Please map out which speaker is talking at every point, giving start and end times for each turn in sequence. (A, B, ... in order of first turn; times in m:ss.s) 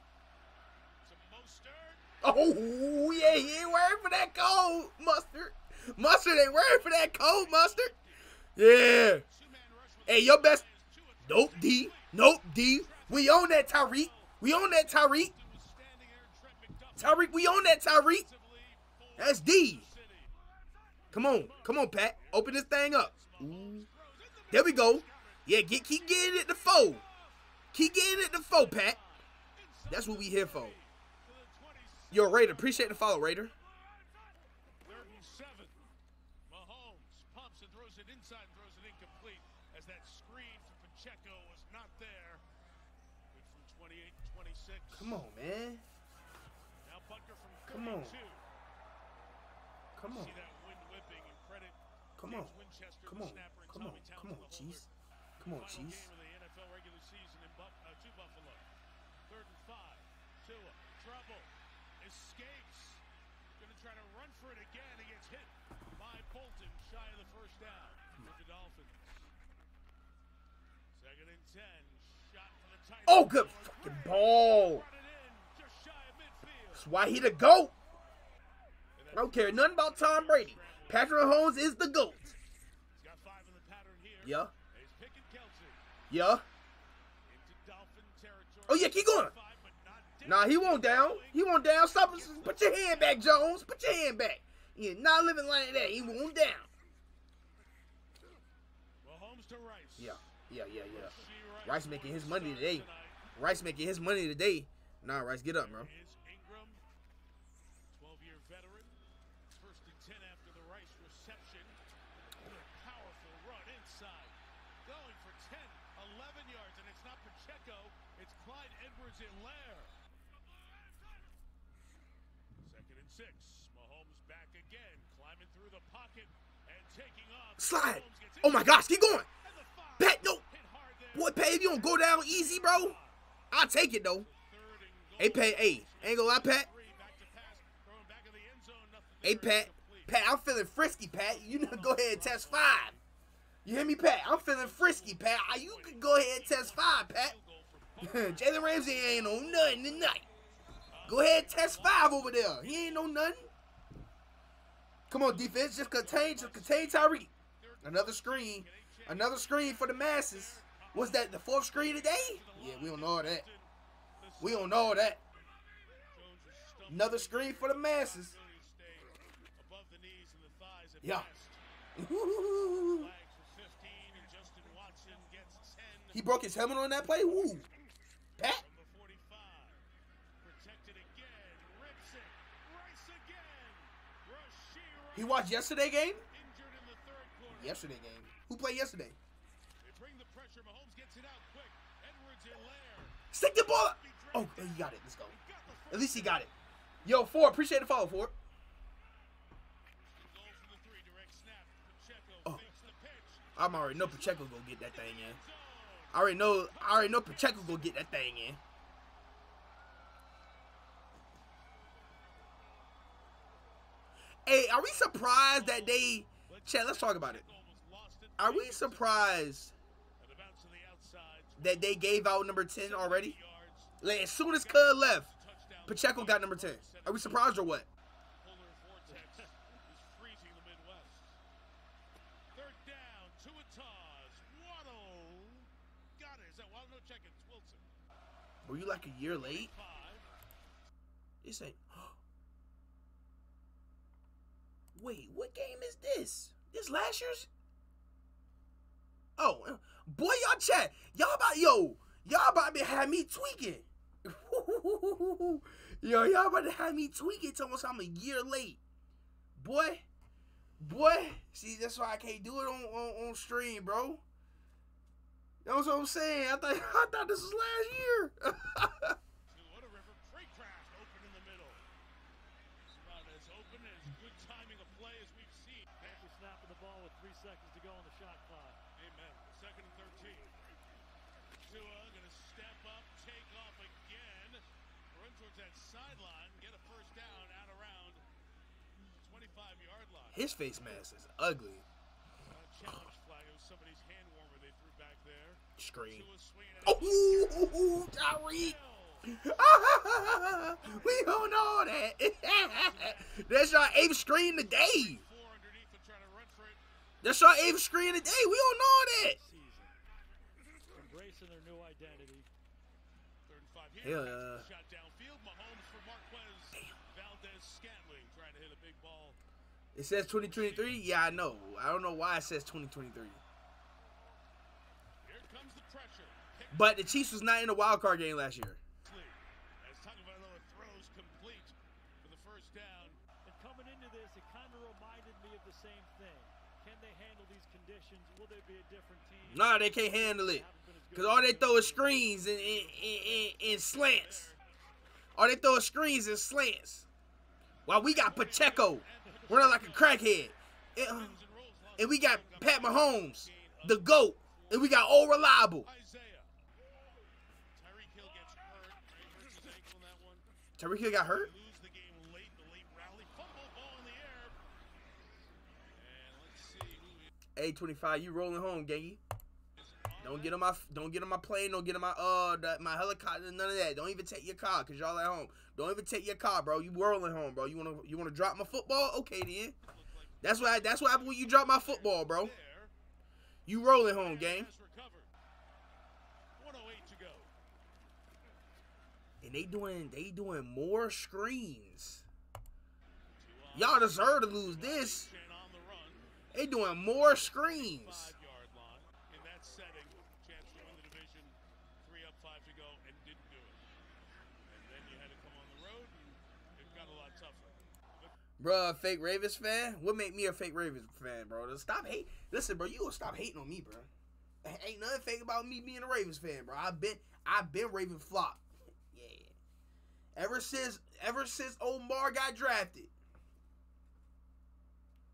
0:01.0-0:02.1 A
0:02.2-0:07.9 B
0:03.1-0:03.9 A
0:06.5-0:20.3 A
0:08.6-0:09.2 B
0:10.1-0:10.6 B
0:11.2-0:15.3 B
0:17.0-0:18.3 B
0:19.2-0:19.9 B
0:20.3-0:21.8 C
0:21.1-0:23.9 B
0:22.0-0:27.4 A
0:24.5-0:27.0 B
0:27.7-0:29.0 B
0:28.1-0:33.2 A
0:29.9-0:30.8 B
0:32.1-0:33.5 B
0:34.8-0:35.8 A
0:36.5-0:42.4 A
0:43.3-0:45.2 A
0:44.9-0:45.8 B
0:46.8-0:48.4 A
0:47.7-0:48.2 B
0:50.0-0:50.3 B
0:50.1-0:58.7 A
0:52.2-0:54.9 B
0:55.4-0:56.1 B
0:59.3-1:03.0 A
1:03.6-1:09.3 A
1:10.9-1:16.9 A
1:13.1-1:14.8 B
1:16.7-1:17.7 B
1:19.0-1:21.4 A
1:19.1-1:22.4 B
1:23.0-1:25.8 A
1:24.2-1:24.5 B
1:26.1-1:26.4 B
1:27.3-1:33.4 A
1:28.7-1:29.4 B
1:30.2-1:36.7 B
1:39.0-1:40.3 A
1:40.0-1:45.9 B
1:40.9-1:43.3 A
1:45.6-1:46.8 A
1:47.9-1:51.8 A
1:52.4-2:00.0 A
2:02.6-2:13.2 A
2:07.6-2:09.3 B
2:10.0-2:10.4 B
2:11.1-2:13.0 B
2:13.5-2:14.3 B
2:14.1-2:20.2 A
2:15.2-2:16.7 B
2:19.2-2:23.0 B
2:21.1-2:23.0 A
2:23.6-2:27.4 B
2:24.3-2:29.8 A
2:28.0-2:30.3 B
2:30.9-2:33.3 A
2:31.1-2:33.5 B
2:35.1-2:37.3 B
2:35.7-2:45.0 A
2:37.8-2:43.5 B
2:44.4-2:45.2 B
2:46.1-2:51.6 A
2:46.9-2:48.4 B
2:51.0-2:51.3 B
2:52.0-2:53.1 B
2:52.7-2:56.2 A
2:56.1-2:57.7 B
2:58.4-2:58.6 B
2:58.6-2:59.8 A
3:00.4-3:05.6 A
3:05.2-3:06.2 B
3:06.3-3:07.9 A
3:07.5-3:09.2 B
3:09.8-3:16.5 A
3:13.3-3:15.4 B
3:15.9-3:16.5 B
3:17.0-3:18.4 B
3:19.9-3:28.1 A
3:23.6-3:25.4 B
3:26.1-3:28.6 B
3:34.5-3:37.5 B
3:34.9-3:39.4 A
3:38.4-3:39.7 B
3:40.2-3:47.5 A
3:41.6-3:43.4 B
3:44.0-3:45.3 B
3:45.9-3:47.9 B
3:48.4-3:51.4 A
3:52.5-3:57.9 A
3:58.6-3:59.7 B
3:59.3-4:00.3 A
4:01.4-4:02.2 B
4:05.0-4:07.5 B
4:09.4-4:18.8 B
4:19.6-4:20.0 B
4:20.8-4:24.2 B
4:25.6-4:29.2 B
4:29.5-4:31.8 A
4:32.9-4:36.2 A
4:36.0-4:38.8 C
4:39.0-4:40.5 A
4:41.6-4:48.2 A
4:49.2-4:51.0 A
4:50.3-4:51.9 B
4:52.4-4:59.5 A
4:55.8-4:56.3 B
4:56.8-5:05.2 B
5:00.8-5:01.5 A
5:02.7-5:03.5 A
5:04.6-5:06.8 A
5:07.2-5:09.4 B
5:09.4-5:10.0 C
5:10.9-5:12.5 C
5:13.5-5:19.4 A
5:14.0-5:14.7 B
5:20.0-5:23.4 B
5:20.2-5:21.0 A
5:25.2-5:27.4 A
5:26.7-5:28.8 B
5:29.0-5:33.2 A
5:33.4-5:42.3 C
5:39.4-5:44.5 B
5:42.3-5:44.6 A
5:45.4-5:47.1 B
5:47.9-5:51.4 B
5:48.0-5:50.4 A
5:51.0-5:55.2 A
5:52.0-5:55.9 B
5:55.8-5:56.5 A
5:57.7-6:00.5 A
6:00.8-6:01.5 B
6:01.1-6:04.6 A
6:06.0-6:07.3 A
6:07.6-6:09.2 B
6:09.8-6:10.7 A
6:10.2-6:19.8 B
6:19.8-6:22.9 A
6:20.4-6:22.5 B
6:23.7-6:24.7 B
6:24.0-6:25.3 A
6:26.6-6:27.5 A
6:29.4-6:32.3 B
6:33.4-6:36.4 A
6:33.7-6:35.3 B
6:36.5-6:38.3 B
6:37.2-6:43.8 A
6:44.7-6:48.3 A
6:48.6-6:54.1 B
6:54.6-6:59.5 B
7:00.4-7:03.1 B